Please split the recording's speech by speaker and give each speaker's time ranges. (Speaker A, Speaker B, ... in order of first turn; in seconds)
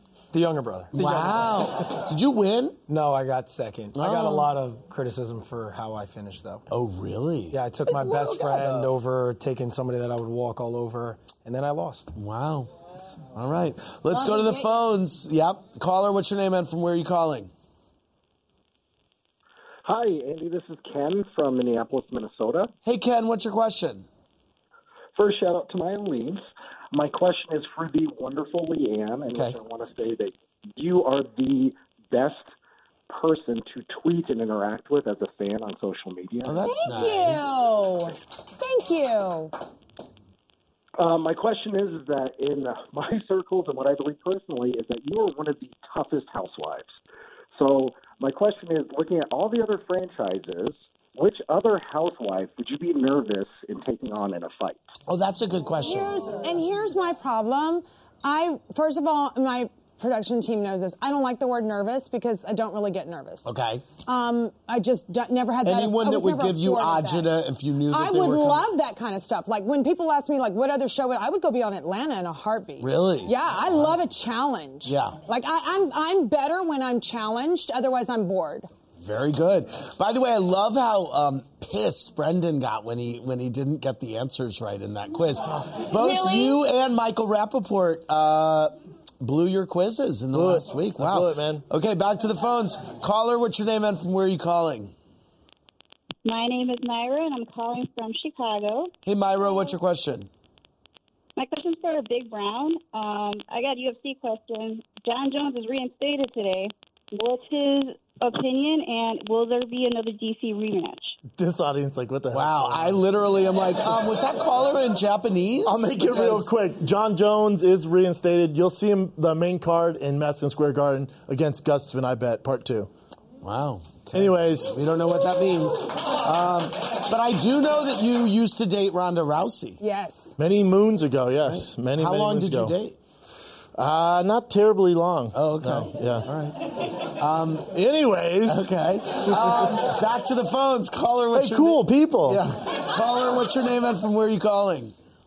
Speaker A: 0.3-1.5, 2.9-6.7, 7.5-12.1
Speaker B: 0.9-2.8, 3.9-4.5, 6.7-8.9, 12.1-12.7, 13.2-17.5, 22.8-24.1, 36.4-37.7, 55.1-56.2, 63.4-63.8, 65.6-68.7, 72.8-74.0, 74.8-75.2, 79.0-94.9, 99.0-100.3, 112.3-116.5, 123.4-129.8, 131.5-133.0, 135.3-137.7, 138.4-144.9
Speaker C: 14.3-14.6, 36.6-39.5, 55.8-63.5, 64.0-78.7, 85.9-86.5, 129.8-130.3
Speaker D: 19.8-22.7, 25.1-32.5, 33.1-36.6, 41.0-46.9, 47.5-54.8
Speaker E: 90.3-91.6, 111.3-113.0, 115.6-122.9, 124.1-124.7, 130.4-132.7, 133.8-136.2, 137.7-138.6, 141.3-142.4
Speaker F: 96.2-98.9, 101.4-111.1